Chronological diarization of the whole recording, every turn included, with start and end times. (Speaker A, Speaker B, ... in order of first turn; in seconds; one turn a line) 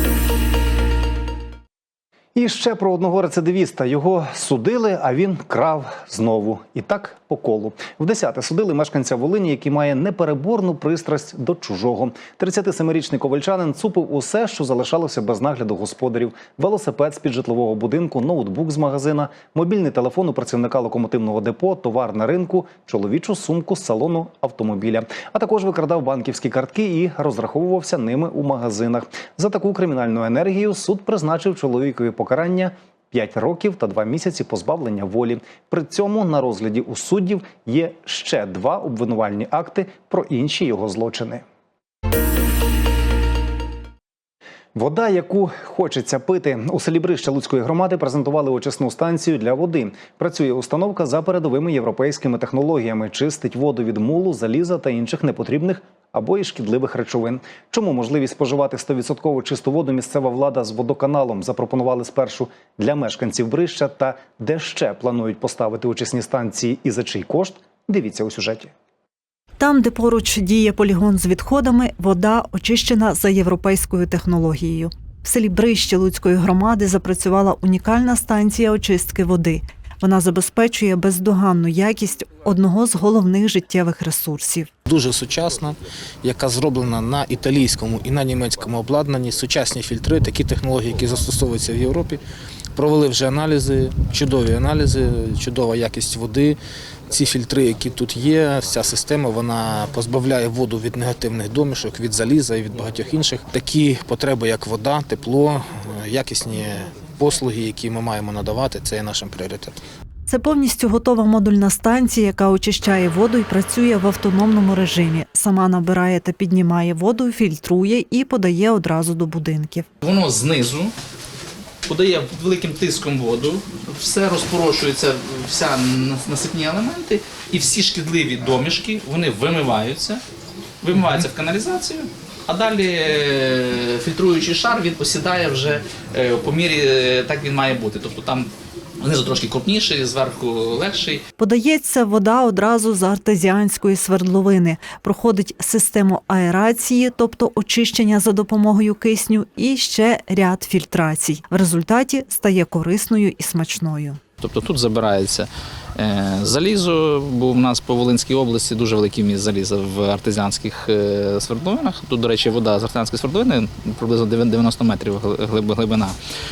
Speaker A: 2.3-41.4
Speaker A: 44.7-68.7
Speaker B: 69.6-84.7
Speaker C: 84.8-92.2
Speaker C: 92.8-96.6
Speaker C: 97.1-109.8
Speaker B: 110.3-119.9
Speaker D: 120.0-120.9
Speaker D: 121.8-130.2
Speaker D: 130.8-138.5
Speaker D: 139.0-141.2
Speaker B: 141.4-154.2
Speaker D: 154.4-166.1